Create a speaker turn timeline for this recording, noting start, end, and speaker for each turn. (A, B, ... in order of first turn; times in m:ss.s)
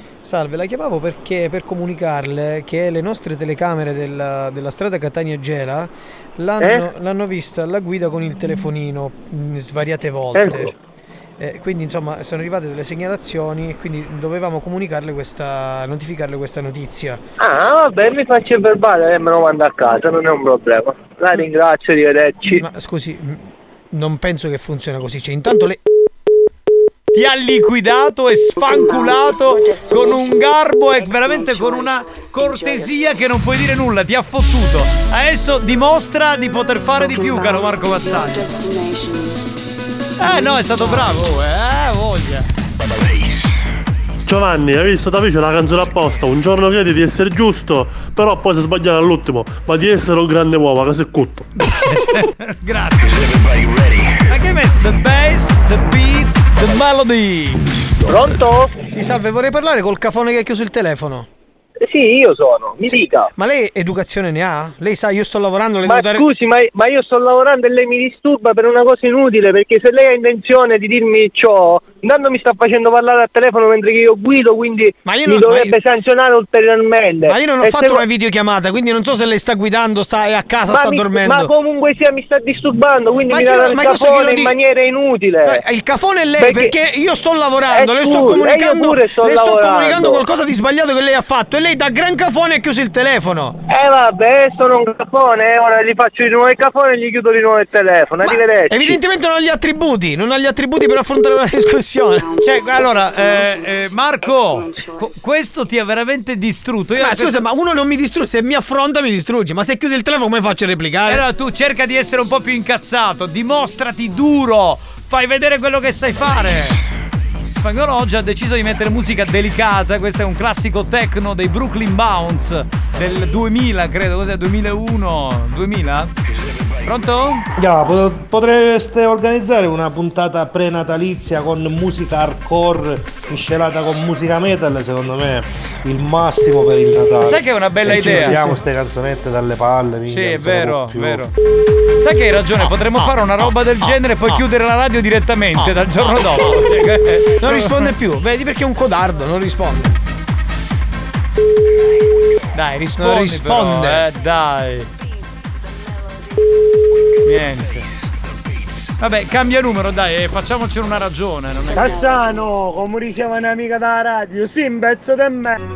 0:00.2-0:10.7 A
0:06.6-0:06.9 B
0:10.4-0:10.7 B
0:11.4-0:17.2 A
0:17.4-0:22.6 B
0:22.6-0:25.8 A
0:27.1-0:38.5 C
0:40.2-0:42.5 C
0:44.3-0:51.5 D
0:51.6-0:53.2 C
0:54.3-0:57.7 C
0:58.1-0:58.7 B
0:58.9-1:01.3 A
1:01.8-1:03.3 B
1:02.9-1:06.2 A
1:05.8-1:18.0 B
1:15.0-1:15.8 A
1:17.3-1:21.5 A
1:20.7-1:25.6 B
1:23.3-1:24.6 A
1:25.5-1:33.6 A
1:26.4-1:26.7 B
1:27.7-1:30.2 B
1:33.7-1:39.0 B
1:38.2-1:42.4 A
1:42.4-1:47.4 C
1:47.0-1:51.2 A
1:51.1-1:56.8 C
1:57.5-2:06.1 C
2:06.8-2:07.5 C
2:07.6-2:21.2 E
2:17.2-2:18.5 C
2:17.9-2:18.6 A
2:20.1-2:21.3 C
2:22.0-2:27.9 C
2:22.6-2:23.2 A
2:23.8-2:24.4 A
2:25.6-2:26.6 A
2:27.4-2:30.0 A
2:32.5-2:34.9 C
2:33.0-2:34.0 A
2:37.2-2:37.8 C
2:39.0-2:42.0 C
2:41.8-2:45.5 F